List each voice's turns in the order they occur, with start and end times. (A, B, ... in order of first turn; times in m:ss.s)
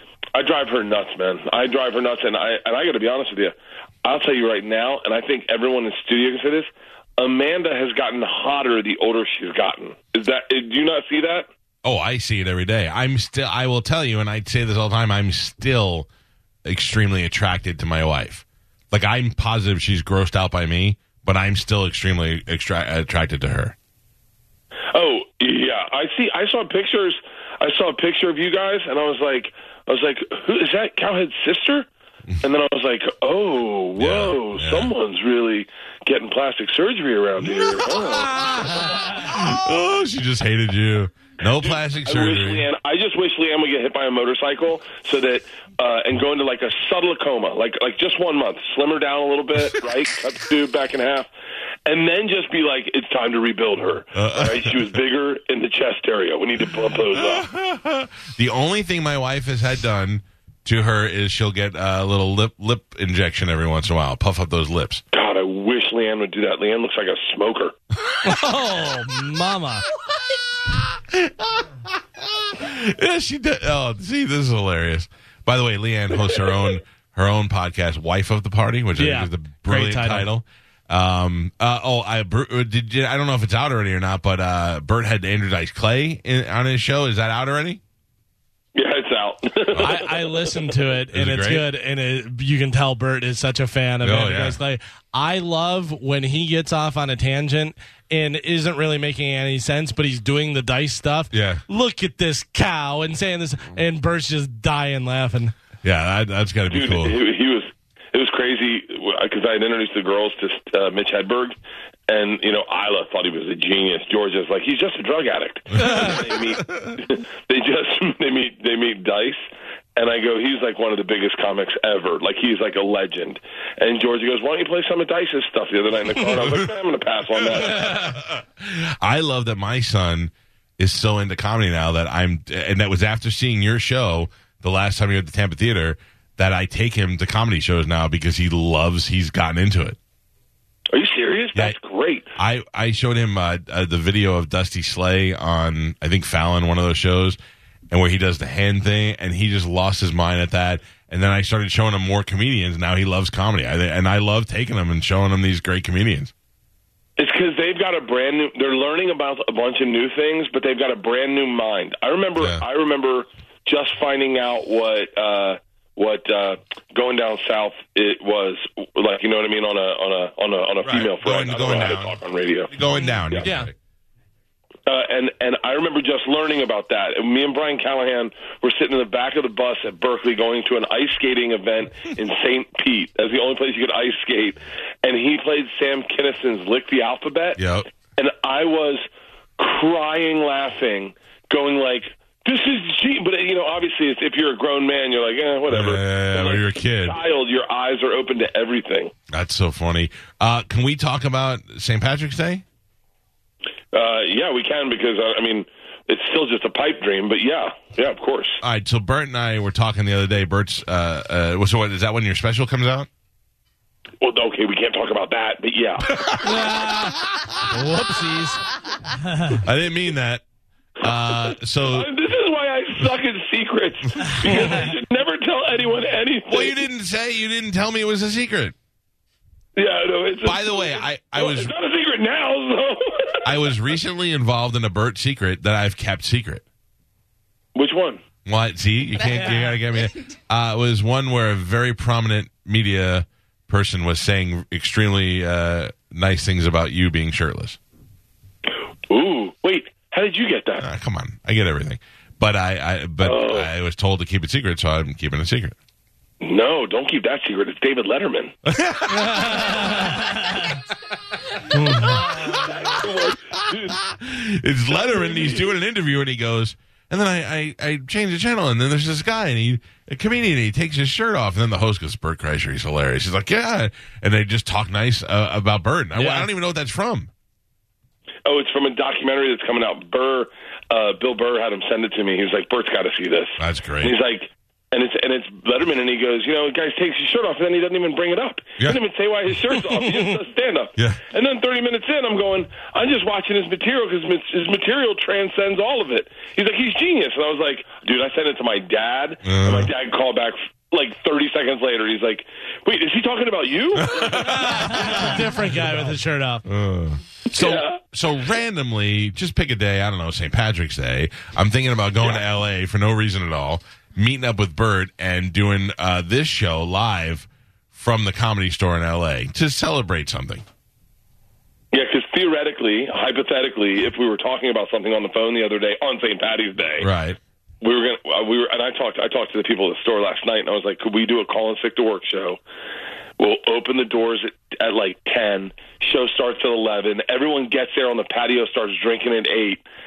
0:00.3-0:11.5 A
0:11.8-0:16.1 B
0:16.6-0:23.7 B
0:24.9-0:31.9 A
0:32.4-0:38.3 A
0:34.0-0:34.9 B
0:38.7-0:42.6 B
0:41.6-0:51.3 A
0:51.8-0:57.5 A
0:54.1-0:54.9 B
0:57.1-1:05.0 B
1:05.1-1:07.7 A
1:08.2-1:09.8 C
1:10.9-1:27.8 B
1:19.0-1:20.3 C
1:28.7-1:30.0 A
1:29.8-1:45.5 C
1:31.1-1:31.6 B
1:34.0-1:34.6 B
1:41.3-1:41.6 B
1:45.8-1:47.2 B
1:46.7-1:51.6 A
1:52.1-1:59.4 A
1:55.7-1:57.0 B
1:55.8-1:56.2 C
2:00.0-2:07.8 A
2:07.4-2:20.0 B
2:07.6-2:08.1 C
2:20.9-2:22.3 A
2:22.4-2:27.4 B
2:27.9-2:36.3 B
2:37.2-2:52.7 A
2:42.4-2:42.6 B
2:50.8-2:52.2 B
2:52.7-2:53.7 B
2:52.9-2:53.7 C
2:54.9-3:07.6 A
3:07.6-3:07.9 B
3:08.2-3:09.0 A
3:09.6-3:19.1 A
3:15.7-3:17.2 B
3:19.3-3:22.6 B
3:23.9-3:28.6 A
3:28.6-3:33.1 B
3:34.2-3:36.1 A
3:36.2-3:37.4 B
3:36.4-3:38.6 C
3:39.6-3:40.4 B
3:41.0-3:42.1 B
3:41.3-3:46.8 A
3:44.2-3:44.7 B
3:46.5-3:48.7 B
3:49.8-3:53.5 A
3:50.4-3:51.7 B
3:53.4-3:56.6 B
3:57.7-3:58.2 A
3:58.4-4:07.8 B
3:59.3-3:59.6 C
4:09.1-4:10.8 A
4:10.8-4:15.8 B
4:13.2-4:13.7 A
4:16.4-4:18.5 A
4:18.6-4:20.2 B
4:19.1-4:20.4 C
4:21.7-4:22.2 C
4:21.8-4:23.0 B
4:22.5-4:24.0 A
4:23.9-4:37.3 B
4:24.9-4:25.6 A
4:36.2-4:36.5 C
4:38.4-5:04.2 A
4:43.6-4:44.1 B
4:51.0-4:51.2 B
4:59.4-4:59.9 B
5:04.0-5:06.0 B
5:04.3-5:06.6 C
5:06.7-5:20.6 B
5:07.6-5:08.0 A
5:21.9-5:27.1 A
5:27.0-5:27.4 B
5:27.8-5:32.6 A
5:33.4-5:39.8 A